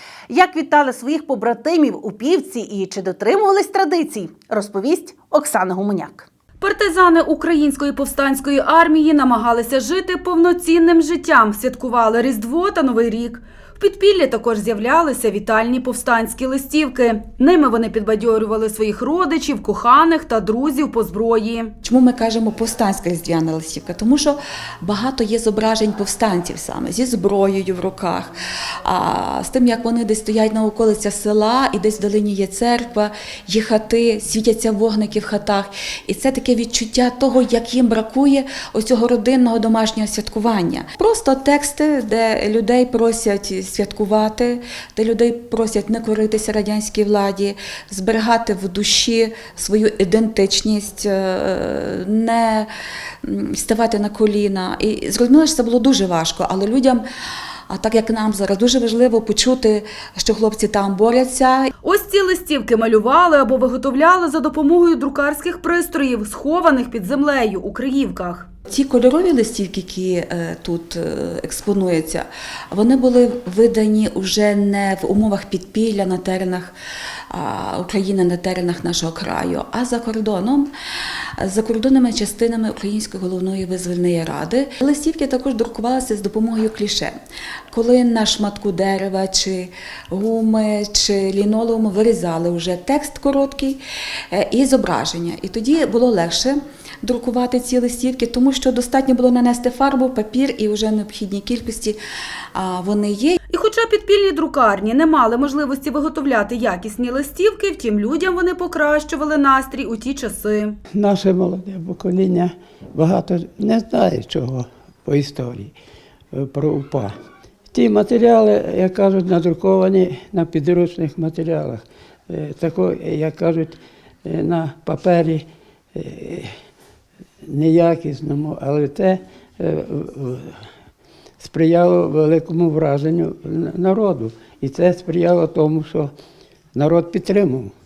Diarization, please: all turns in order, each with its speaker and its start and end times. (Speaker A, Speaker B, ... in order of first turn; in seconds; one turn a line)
Speaker A: 0.3-6.3
Speaker B: 6.6-21.7
Speaker C: 21.8-52.7
Speaker C: 53.2-57.0
Speaker C: 57.7-61.7
Speaker B: 61.8-68.5
Speaker C: 68.7-76.7
Speaker C: 77.3-80.7
Speaker C: 81.4-87.1
Speaker C: 87.7-102.0
Speaker C: 102.5-103.4
Speaker B: 103.5-110.8
Speaker D: 110.9-115.7
Speaker D: 116.3-117.1
Speaker D: 117.7-126.5
Speaker D: 127.5-130.5
Speaker D: 131.4-136.1
Speaker D: 136.7-137.7